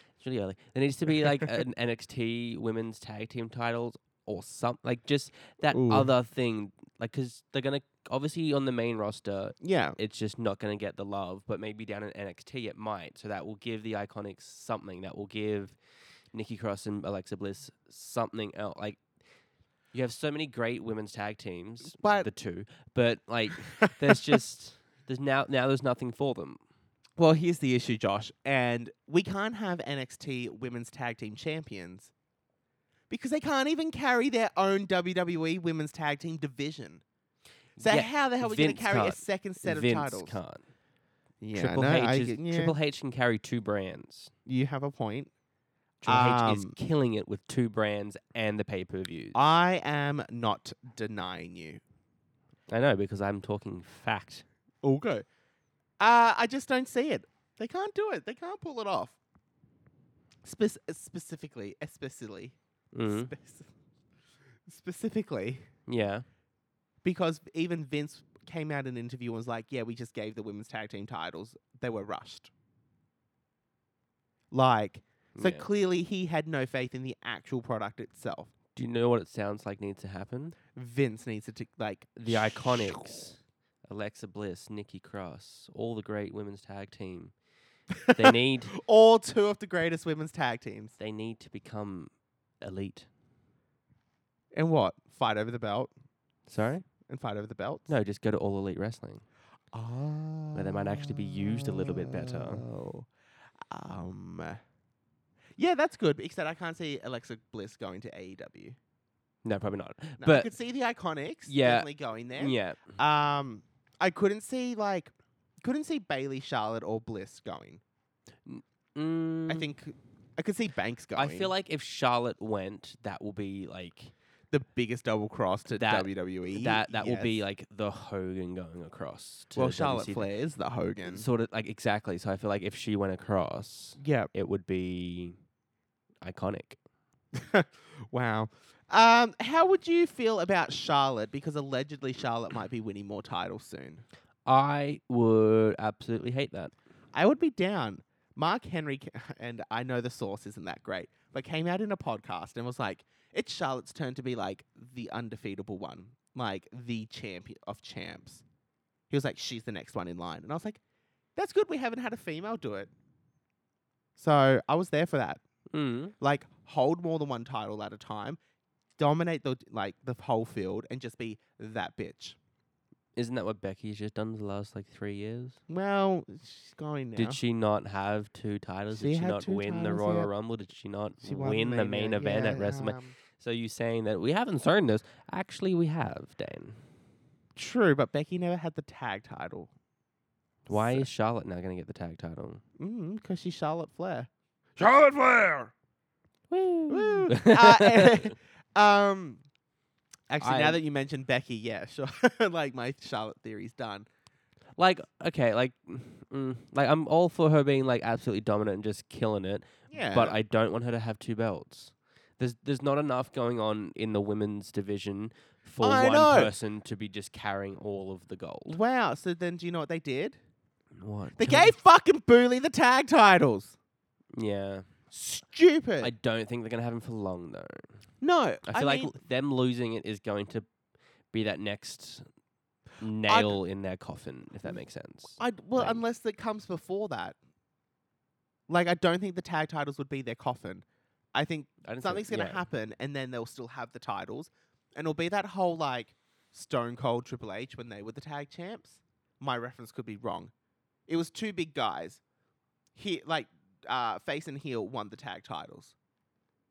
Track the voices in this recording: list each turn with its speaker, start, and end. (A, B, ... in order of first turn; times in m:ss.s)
0:00.2-0:15.8 A
0:05.7-0:06.1 B
0:09.6-0:10.0 B
0:16.3-0:19.0 A
0:19.9-0:26.6 A
0:21.9-0:22.3 B
0:23.8-0:24.3 B
0:27.2-0:32.1 B
0:33.1-0:37.0 B
0:37.8-0:40.6 A
0:37.8-0:40.4 B
0:41.4-0:42.8 B
0:41.6-0:44.3 A
0:44.5-0:45.3 B
0:46.0-0:49.4 A
0:46.1-0:46.8 B
0:49.4-0:51.8 B
0:52.7-0:54.4 A
0:54.8-0:55.3 B
0:56.0-0:59.2 B
1:00.4-1:02.6 B
1:02.9-1:03.3 A
1:03.1-1:03.7 B
1:04.7-1:05.7 B
1:05.9-1:06.3 A
1:07.0-1:12.5 B
1:14.5-1:18.5 B
1:15.4-1:15.6 A
1:18.8-1:20.6 A
1:20.8-1:23.2 B
1:22.2-1:23.4 A
1:23.9-1:27.3 A
1:28.1-1:28.7 A
1:28.7-1:31.0 B
1:31.0-1:33.1 A
1:34.5-1:35.9 B
1:36.5-1:36.9 A
1:37.1-1:37.9 B
1:37.9-1:39.2 A
1:39.7-1:43.1 B
1:40.6-1:42.6 A
1:43.7-1:44.6 B
1:45.6-1:48.8 B
1:49.4-1:50.5 A
1:50.2-1:57.8 B
1:51.5-1:53.0 A
1:58.5-1:59.7 A
1:59.5-2:01.5 B
2:01.2-2:04.1 A
2:04.5-2:07.4 B
2:05.7-2:10.3 A
2:09.6-2:11.3 B
2:11.0-2:15.4 A
2:14.0-2:14.3 B
2:16.2-2:16.8 A
2:17.4-2:24.0 B
2:24.5-2:26.7 A
2:27.1-2:38.4 B
2:39.1-2:40.8 B
2:41.4-2:42.9 B
2:44.2-2:45.4 B
2:45.7-2:46.1 A
2:46.2-2:48.4 B
2:49.0-2:52.4 B
2:53.2-2:55.6 A
2:55.7-2:57.4 B
2:57.2-3:06.8 A
2:58.9-3:00.3 B
3:01.2-3:03.1 B
3:07.6-3:09.7 B
3:10.7-3:12.6 A
3:10.7-3:11.1 B
3:12.8-3:15.7 B
3:16.5-3:18.3 A
3:16.9-3:19.4 B
3:20.3-3:24.1 B
3:20.4-3:20.8 A
3:24.8-3:38.8 A
3:29.9-3:30.4 B
3:35.8-3:36.5 B
3:38.7-3:40.4 B
3:41.0-3:41.7 A
3:41.4-3:43.8 B
3:44.4-3:44.9 A
3:45.1-3:46.1 B
3:46.0-3:48.0 A
3:48.2-3:49.2 B
3:48.7-3:50.7 A
3:51.3-3:52.3 A
3:53.0-3:56.0 A
3:53.3-3:53.6 B
3:55.4-3:57.4 B
3:58.7-4:10.5 B
4:01.8-4:02.6 A
4:11.1-4:12.2 B
4:13.0-4:15.9 B